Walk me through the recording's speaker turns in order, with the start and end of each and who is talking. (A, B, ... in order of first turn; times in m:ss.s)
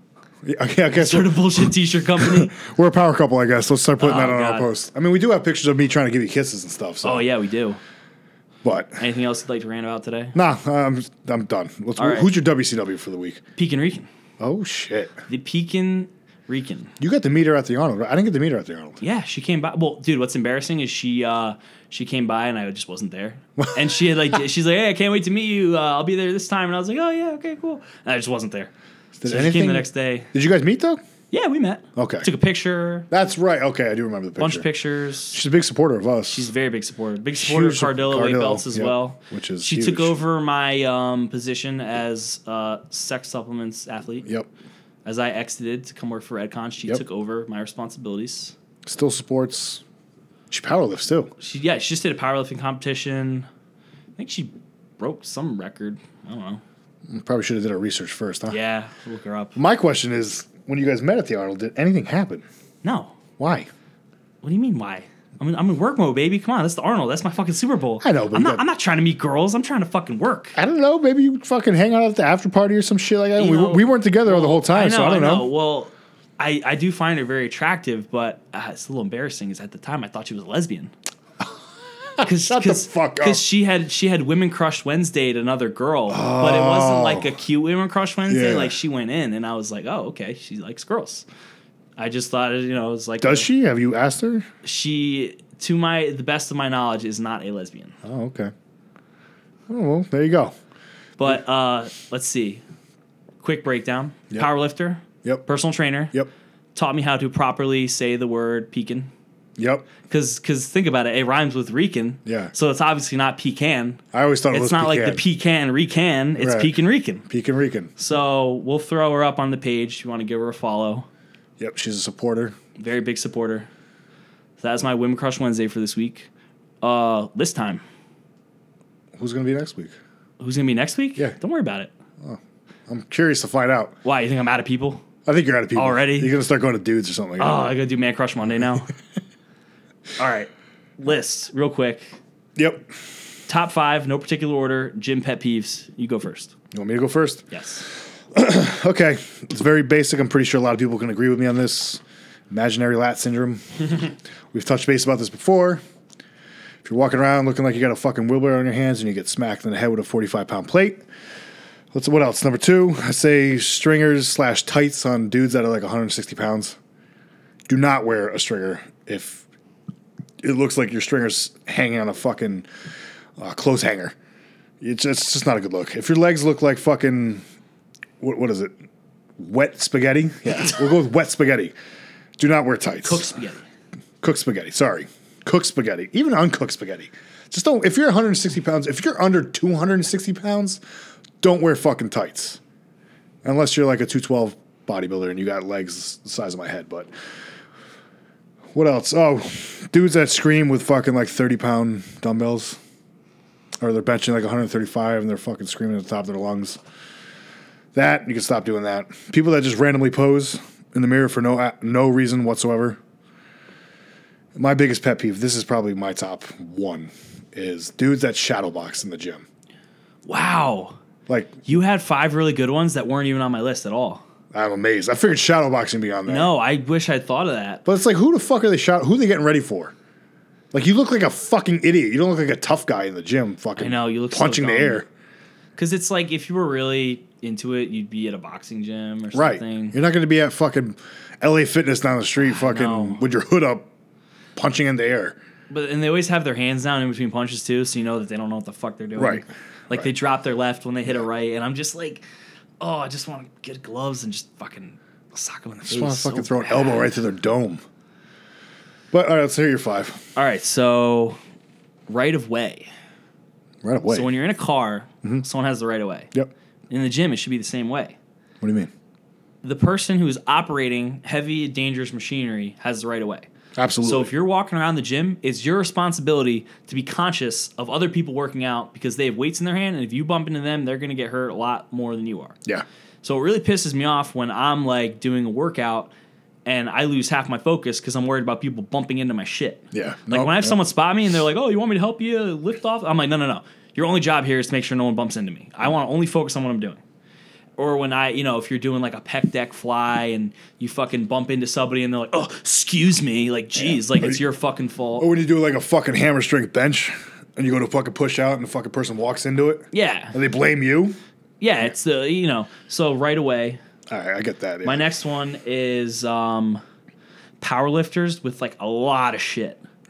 0:00.4-0:07.3 A
0:00.9-0:02.5 B
0:04.0-0:04.7 B
0:07.0-0:07.8 B
0:08.6-0:09.0 A
0:09.0-0:10.3 B
0:10.3-0:13.4 A
0:12.0-0:12.3 B
0:13.6-0:14.1 B
0:14.4-0:15.2 A
0:15.3-0:16.9 B
0:17.0-0:19.0 A
0:19.0-0:28.7 B
0:29.2-0:31.0 A
0:29.2-0:30.3 B
0:31.3-0:33.1 B
0:32.0-0:32.3 A
0:33.1-0:34.7 A
0:34.4-0:35.4 B
0:35.3-0:36.5 A
0:36.3-0:44.2 B
0:37.3-0:40.2 A
0:44.2-0:44.5 A
0:45.0-0:48.5 B
0:48.8-0:49.8 A
0:50.5-0:51.3 A
0:51.4-0:53.5 B
0:54.2-0:56.6 B
0:57.1-0:58.6 A
0:58.5-0:59.6 B
0:59.6-1:02.4 A
1:02.8-1:03.2 B
1:03.4-1:03.7 A
1:04.4-1:10.6 B
1:08.0-1:08.6 A
1:10.6-1:15.5 A
1:13.4-1:20.9 B
1:22.2-1:23.4 A
1:22.2-1:31.2 B
1:26.1-1:27.3 A
1:28.3-1:28.7 A
1:32.0-1:33.5 B
1:33.2-1:34.5 A
1:34.6-1:38.0 B
1:38.0-1:38.5 A
1:39.7-1:40.5 A
1:41.2-1:42.6 B
1:43.4-1:46.1 B
1:46.7-1:49.1 B
1:49.6-1:49.9 A
1:50.1-1:57.2 B
1:52.2-1:52.5 A
1:54.1-1:55.2 A
1:56.4-1:56.7 A
1:57.2-1:57.9 A
1:58.0-2:01.1 B
2:01.6-2:02.6 A
2:02.8-2:03.7 B
2:04.6-2:06.3 B
2:06.8-2:07.8 B
2:09.2-2:10.0 A
2:10.4-2:11.9 B
2:12.2-2:13.9 A
2:14.0-2:15.0 B
2:15.2-2:17.6 A
2:15.7-2:16.3 B
2:17.4-2:18.9 B
2:20.2-2:22.2 B
2:22.6-2:22.9 A
2:23.5-2:26.5 B
2:26.7-2:35.8 A
2:27.5-2:27.8 B
2:36.8-2:41.0 A
2:41.9-2:46.8 A
2:47.7-2:49.4 A
2:50.4-2:52.6 A
2:53.4-2:54.1 A
2:54.8-2:57.4 A
2:58.2-2:58.7 A
2:59.4-3:01.7 A
3:02.4-3:03.2 A
3:03.0-3:03.6 B
3:04.2-3:10.8 A
3:11.4-3:12.6 A
3:13.4-3:17.1 A
3:18.7-3:22.8 A
3:23.8-3:26.8 A
3:27.9-3:33.0 A
3:34.5-3:39.4 A
3:40.2-3:41.0 B
3:41.3-3:41.6 A
3:41.6-3:44.2 B
3:44.5-3:46.5 A
3:46.3-3:47.8 B
3:47.8-3:49.9 A
3:50.7-3:55.1 A
3:53.8-3:55.0 B
3:55.8-4:00.0 B
3:59.3-4:03.9 A
4:02.4-4:03.2 B
4:04.6-4:05.4 A
4:05.7-4:12.2 B
4:09.2-4:09.4 A
4:12.8-4:17.1 B
4:15.8-4:17.8 A
4:19.1-4:20.2 A
4:20.4-4:21.4 B
4:22.1-4:22.9 B
4:23.8-4:24.3 A
4:24.1-4:26.3 B
4:26.9-4:28.2 B
4:28.6-4:28.9 A
4:29.6-4:33.5 B
4:33.8-4:34.3 A
4:34.0-4:42.6 B
4:43.2-4:46.1 B
4:46.6-4:57.0 B
4:49.9-4:50.8 A
4:57.8-5:05.3 B
5:03.8-5:04.4 A
5:05.2-5:11.2 A
5:09.9-5:10.4 B
5:11.6-5:13.8 B
5:14.1-5:15.1 A
5:14.8-5:16.8 B
5:17.6-5:19.8 B